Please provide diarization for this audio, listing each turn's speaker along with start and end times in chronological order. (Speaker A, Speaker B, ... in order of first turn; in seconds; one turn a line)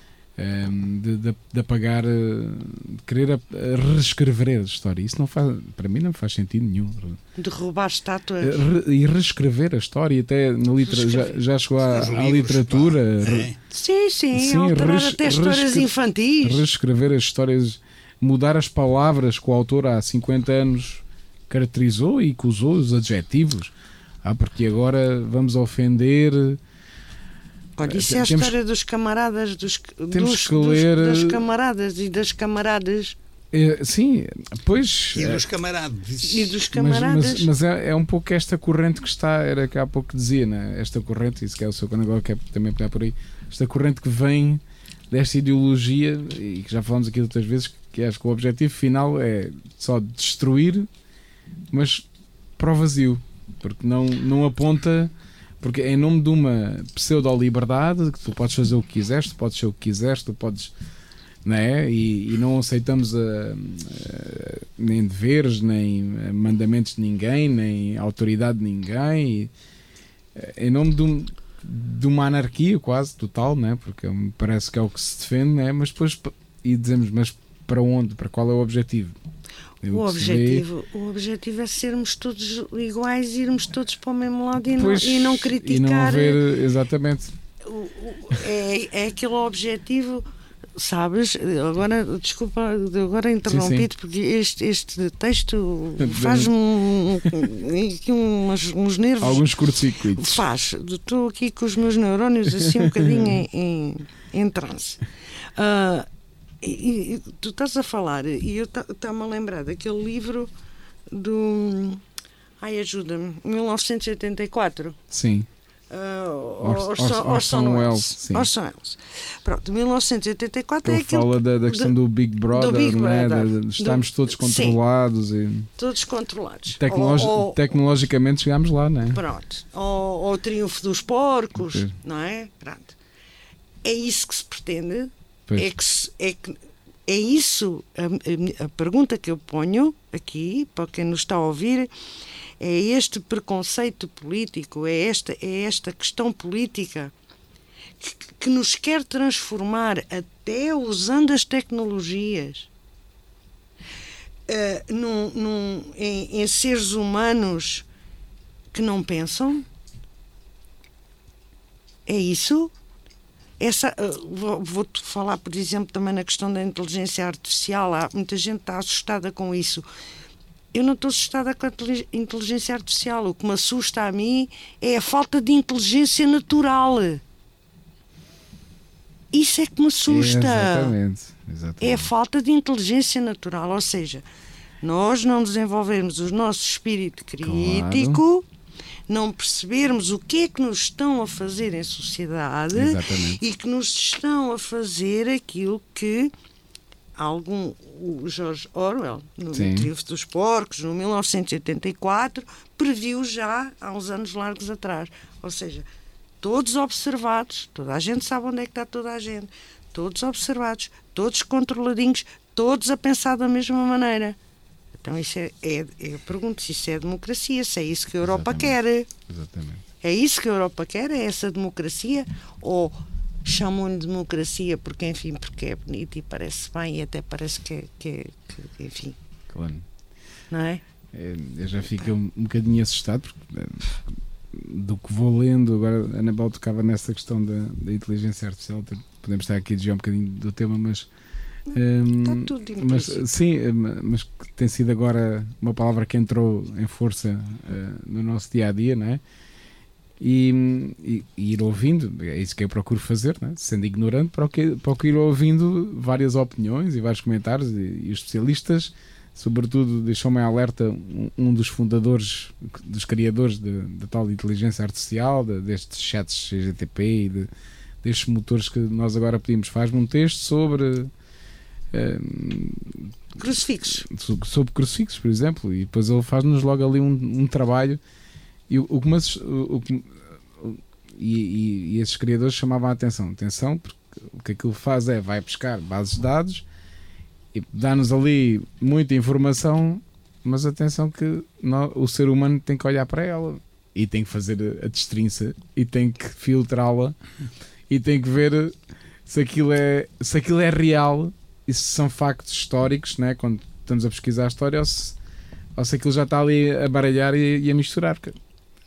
Speaker A: 0.4-7.2
Speaker B: 7.4-8.7
Speaker A: 8.4-13.5
Speaker B: 10.9-11.3
Speaker C: 11.8-13.6
Speaker B: 13.7-16.6
Speaker A: 14.3-15.9
Speaker A: 16.4-26.6
Speaker B: 27.8-33.2
Speaker A: 27.9-28.6
Speaker A: 30.1-31.4
Speaker A: 33.5-35.4
Speaker C: 35.1-36.6
Speaker B: 36.2-37.5
Speaker A: 36.7-50.9
Speaker A: 51.7-52.1
Speaker A: 52.6-60.7
Speaker A: 61.4-69.5
Speaker A: 70.3-79.2
Speaker A: 79.8-80.7
Speaker B: 79.8-86.4
Speaker A: 84.8-87.3
Speaker B: 87.6-99.5
Speaker A: 93.5-93.9
Speaker A: 96.0-96.5
Speaker A: 99.2-100.4
Speaker B: 100.1-105.0
Speaker A: 102.6-103.2
Speaker B: 105.5-106.1
Speaker B: 106.6-110.5
Speaker B: 111.1-112.0
Speaker B: 112.6-115.0
Speaker A: 115.1-115.5
Speaker B: 115.9-122.0
Speaker A: 116.6-118.5
Speaker A: 120.8-125.7
Speaker B: 122.5-124.8
Speaker B: 125.8-127.6
Speaker A: 126.8-129.2
Speaker B: 129.1-133.0
Speaker A: 131.6-131.9
Speaker B: 133.8-141.9
Speaker B: 142.6-147.1
Speaker B: 148.0-152.7
Speaker B: 154.5-157.9
Speaker B: 158.7-159.7
Speaker B: 162.1-162.7
Speaker B: 163.6-169.9
Speaker B: 170.7-177.2
Speaker B: 179.3-180.9
Speaker A: 180.1-182.1
Speaker B: 181.8-184.3
Speaker B: 184.8-188.5
Speaker A: 187.4-188.2
Speaker B: 189.1-196.3
Speaker A: 192.7-193.4
Speaker B: 197.2-205.9
Speaker A: 199.5-199.9
Speaker B: 206.4-214.4
Speaker B: 215.0-219.1
Speaker A: 218.2-218.8
Speaker A: 219.3-219.8
Speaker B: 220.0-229.2
Speaker A: 229.5-229.8
Speaker B: 230.5-230.8
Speaker A: 231.1-234.0
Speaker A: 234.5-241.1
Speaker B: 241.7-243.3
Speaker A: 241.7-249.2
Speaker A: 250.2-267.5
Speaker A: 268.0-271.1
Speaker A: 271.9-273.2
Speaker B: 273.4-274.1
Speaker A: 274.0-278.0
Speaker A: 278.7-286.7
Speaker A: 287.5-297.2
Speaker A: 297.9-305.2
Speaker A: 305.8-308.4